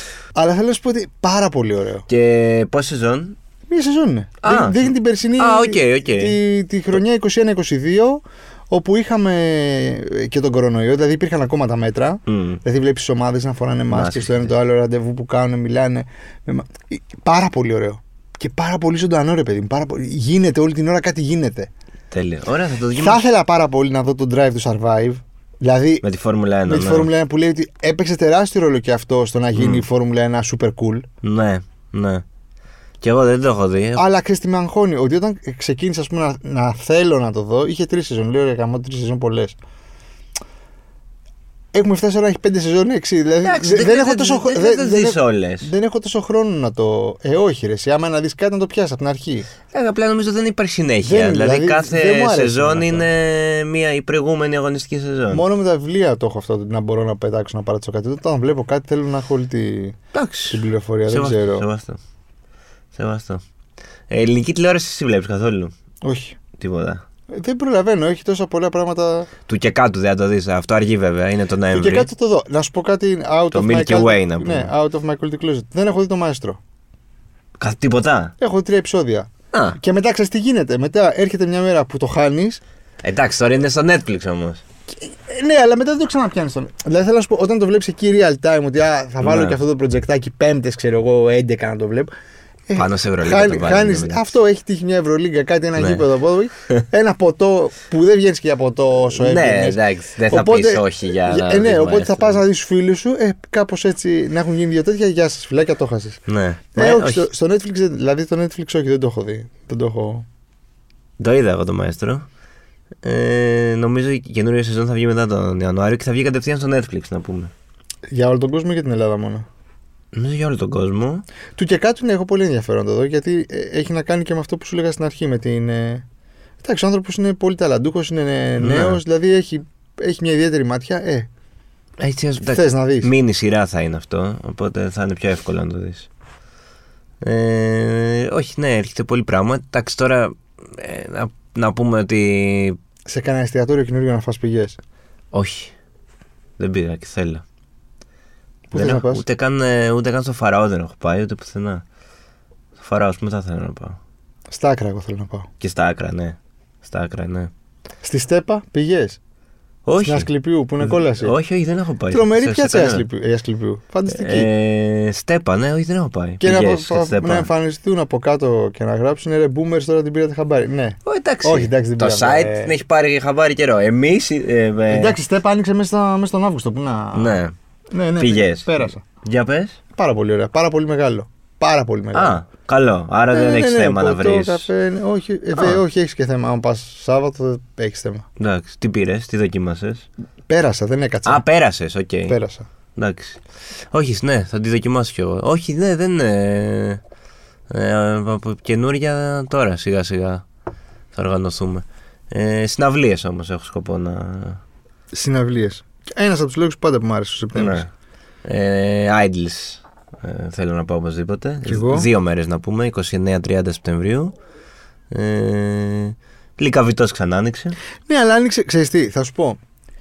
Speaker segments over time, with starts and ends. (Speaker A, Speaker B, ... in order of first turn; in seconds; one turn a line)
Speaker A: 0.3-2.0
Speaker B: 2.1-3.4
Speaker A: 3.7-21.7
Speaker B: 4.4-6.4
Speaker B: 12.2-12.6
Speaker B: 13.9-14.5
Speaker B: 22.1-23.2
Speaker A: 22.9-26.0
Speaker B: 26.0-27.1
Speaker A: 26.7-31.1
Speaker B: 29.6-29.9
Speaker B: 31.2-32.2
Speaker B: 33.0-34.0
Speaker A: 34.0-39.6
Speaker A: 41.7-49.5
Speaker B: 43.4-45.7
Speaker B: 49.7-55.4
Speaker A: 51.0-53.1
Speaker A: 55.3-60.0
Speaker B: 60.1-62.0
Speaker A: 60.5-61.6
Speaker B: 62.9-63.4
Speaker B: 64.1-65.7
Speaker A: 66.0-66.4
Speaker B: 66.6-67.0
Speaker A: 67.3-69.3
Speaker B: 69.5-72.1
Speaker A: 71.7-76.6
Speaker B: 73.5-74.7
Speaker B: 77.6-78.3
Speaker A: 78.4-82.6
Speaker B: 79.5-79.8
Speaker B: 83.0-84.6
Speaker A: 84.9-92.1
Speaker B: 89.2-89.6
Speaker A: 92.7-106.2
Speaker B: 92.7-94.3
Speaker B: 95.8-96.0
Speaker B: 99.2-102.4
Speaker B: 106.3-107.3
Speaker A: 106.7-110.2
Speaker B: 111.2-112.2
Speaker B: 113.0-117.5
Speaker A: 118.1-119.5
Speaker B: 120.1-121.2
Speaker A: 121.6-126.0
Speaker A: 126.6-131.3
Speaker B: 128.6-129.0
Speaker B: 132.0-136.1
Speaker A: 132.5-133.1
Speaker B: 137.2-142.8
Speaker A: 143.1-144.8
Speaker B: 145.3-145.7
Speaker B: 146.6-147.4
Speaker A: 148.7-149.2
Speaker B: 148.7-151.8
Speaker B: 152.8-154.0
Speaker A: 154.5-155.5
Speaker B: 155.6-157.5
Speaker A: 158.0-159.2
Speaker B: 159.9-160.3
Speaker A: 160.0-161.3
Speaker B: 160.8-163.1
Speaker A: 162.1-164.5
Speaker B: 164.1-167.5
Speaker A: 166.4-172.7
Speaker B: 171.1-175.2
Speaker A: 174.9-177.4
Speaker B: 177.1-177.5
Speaker A: 177.9-179.0
Speaker B: 178.2-179.8
Speaker A: 179.9-182.4
Speaker B: 182.1-184.7
Speaker A: 183.3-188.2
Speaker B: 185.6-185.8
Speaker B: 188.4-190.1
Speaker A: 190.5-191.4
Speaker B: 191.2-192.4
Speaker A: 192.3-192.7
Speaker B: 192.9-193.4
Speaker B: 193.9-197.0
Speaker B: 197.7-200.4
Speaker B: 201.1-204.6
Speaker A: 205.1-207.8
Speaker B: 207.6-207.9
Speaker B: 208.4-214.4
Speaker A: 211.6-212.1
Speaker B: 215.1-217.8
Speaker A: 218.1-219.6